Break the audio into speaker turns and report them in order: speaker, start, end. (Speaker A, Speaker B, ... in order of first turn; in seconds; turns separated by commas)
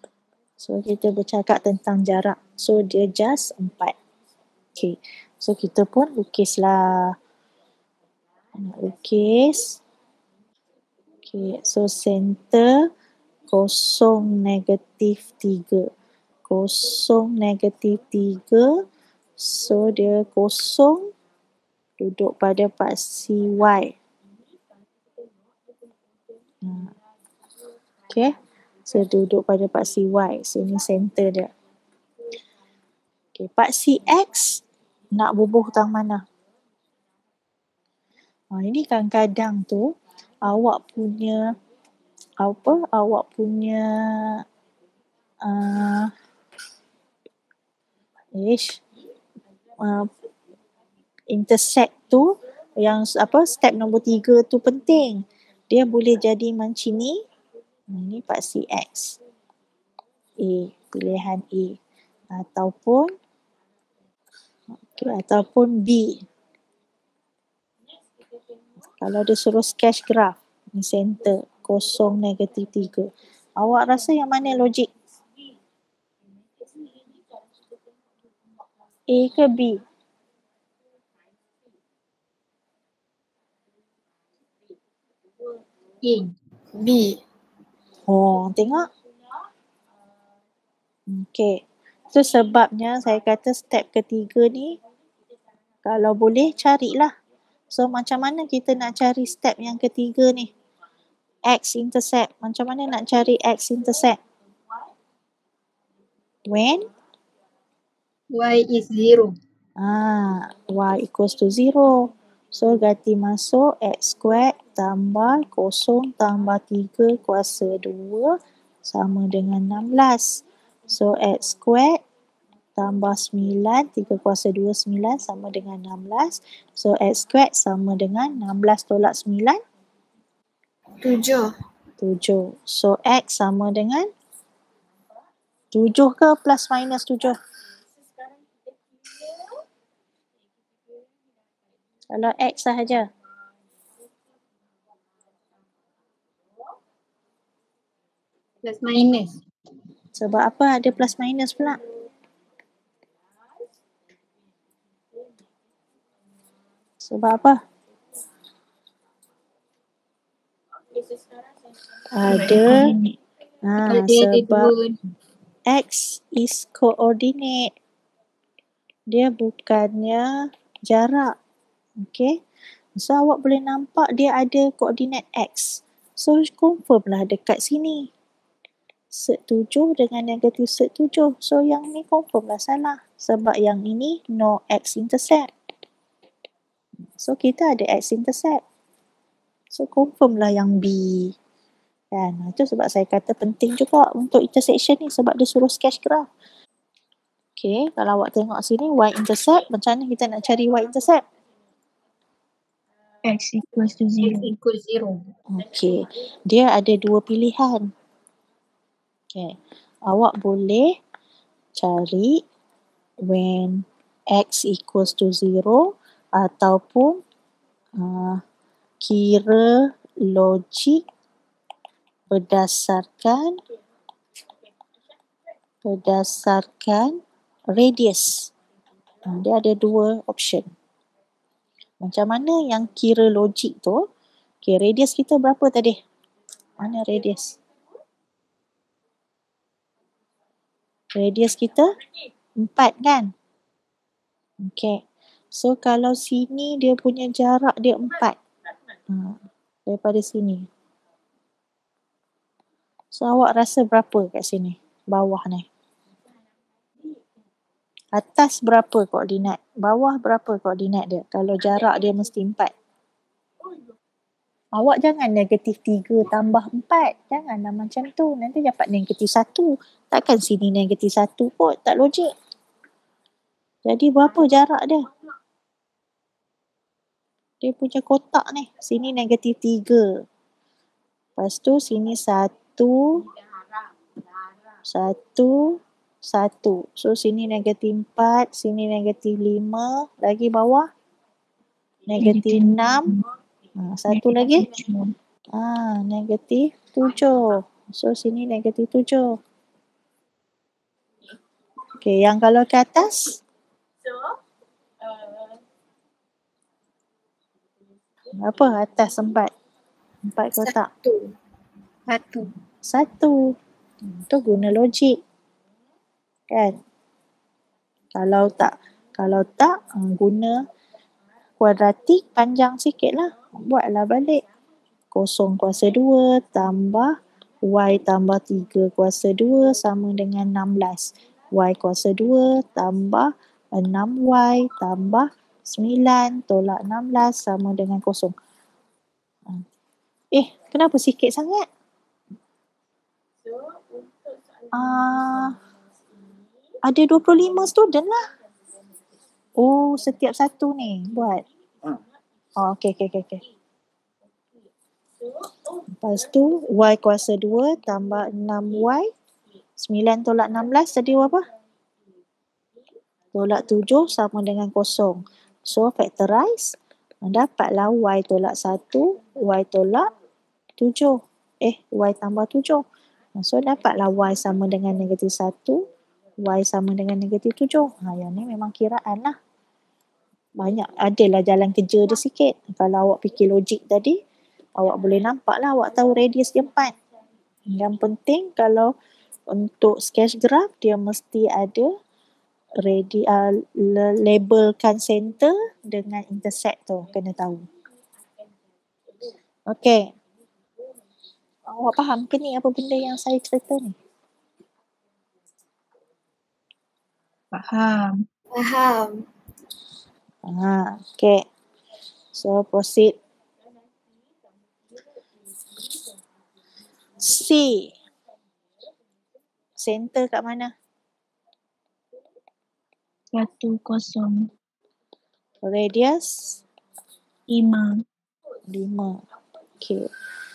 Speaker A: 0.6-3.9, Speaker A: 4.8-7.1, Speaker A: 8.5-9.8, Speaker A: 11.2-12.9, Speaker A: 13.5-15.9, Speaker A: 16.5-18.7, Speaker A: 19.4-21.1, Speaker A: 22.0-23.9, Speaker A: 26.6-26.9, Speaker A: 28.9-31.5, Speaker A: 33.4-34.6, Speaker A: 35.1-36.2, Speaker A: 38.5-39.9, Speaker A: 40.4-41.5, Speaker A: 42.4-44.4, Speaker A: 45.4-46.1, Speaker A: 48.3-48.8, Speaker A: 49.8-50.1, Speaker A: 51.3-57.2, Speaker A: 57.9-59.2, Speaker A: 60.4-61.8, Speaker A: 62.3-63.1, Speaker A: 64.8-66.2, Speaker A: 69.0-74.9, Speaker A: 79.1-79.8, Speaker B: 86.0-86.3, Speaker C: 86.8-87.1, Speaker A: 88.1-88.9, Speaker A: 91.1-94.8, Speaker A: 95.8-97.1, Speaker A: 97.7-100.5, Speaker A: 101.4-104.2, Speaker A: 106.5-106.9, Speaker B: 108.3-109.3, Speaker A: 109.8-122.0, Speaker A: 122.8-129.6, Speaker C: 131.0-131.5, Speaker A: 132.0-134.1, Speaker A: 135.7-137.3, Speaker A: 142.1-143.1, Speaker B: 148.6-149.4, Speaker A: 150.1-151.8, Speaker A: 157.0-157.6, Speaker A: 162.1-162.9, Speaker D: 162.2-163.2, Speaker A: 163.6-164.7, Speaker B: 163.8-164.9, Speaker A: 165.7-167.7, Speaker A: 169.1-170.3, Speaker A: 170.9-171.3, Speaker A: 172.0-172.3, Speaker A: 173.0-178.1, Speaker A: 179.1-185.5, Speaker A: 187.2-188.6, Speaker A: 189.7-191.3, Speaker A: 192.1-196.3, Speaker A: 197.6-201.2, Speaker D: 203.2-204.5, Speaker B: 204.2-205.2, Speaker A: 205.5-207.9, Speaker A: 209.3-210.9, Speaker A: 211.7-212.4, Speaker A: 213.2-217.2, Speaker A: 218.0-218.4, Speaker A: 219.0-221.0, Speaker A: 222.3-223.6, Speaker A: 225.8-227.2, Speaker A: 227.7-228.5, Speaker A: 229.2-230.7, Speaker A: 232.0-234.0, Speaker A: 234.6-236.0, Speaker A: 236.8-237.5, Speaker A: 241.1-241.9, Speaker A: 242.6-243.3, Speaker A: 244.6-245.0, Speaker A: 245.5-248.4, Speaker A: 249.1-250.7, Speaker A: 253.1-255.7, Speaker A: 258.1-262.7, Speaker A: 264.8-272.3, Speaker A: 273.8-275.1, Speaker A: 277.6-280.2, Speaker A: 281.4-283.2, Speaker A: 284.9-290.9, Speaker A: 292.1-293.1, Speaker D: 292.2-293.2, Speaker A: 293.8-294.7, Speaker D: 294.1-295.1, Speaker A: 295.5-299.4, Speaker A: 302.0-303.4, Speaker A: 308.3-309.5, Speaker A: 310.2-310.9, Speaker C: 310.6-311.3, Speaker B: 312.1-312.5, Speaker A: 312.8-313.5, Speaker A: 314.1-315.2, Speaker A: 316.5-316.8, Speaker A: 318.1-320.6, Speaker A: 321.6-324.4, Speaker A: 325.1-338.3, Speaker A: 340.3-341.6, Speaker A: 344.7-345.6, Speaker A: 346.8-348.2, Speaker A: 349.6-351.4, Speaker A: 352.6-353.4, Speaker A: 356.0-359.1, Speaker A: 359.8-361.4, Speaker A: 363.3-370.1, Speaker A: 370.8-372.8, Speaker A: 373.3-375.8, Speaker A: 376.4-379.3, Speaker A: 380.6-384.2, Speaker A: 384.8-386.9, Speaker A: 387.7-388.9, Speaker A: 389.5-391.9, Speaker A: 392.8-397.6, Speaker A: 399.7-400.1, Speaker A: 401.7-403.9, Speaker D: 407.5-408.2, Speaker C: 408.5-409.2, Speaker A: 410.4-411.4, Speaker A: 412.3-413.1, Speaker A: 417.2-417.9, Speaker A: 419.8-420.7, Speaker D: 423.3-424.5, Speaker A: 425.6-426.6, Speaker D: 427.5-428.0, Speaker A: 428.7-429.2, Speaker A: 429.8-430.1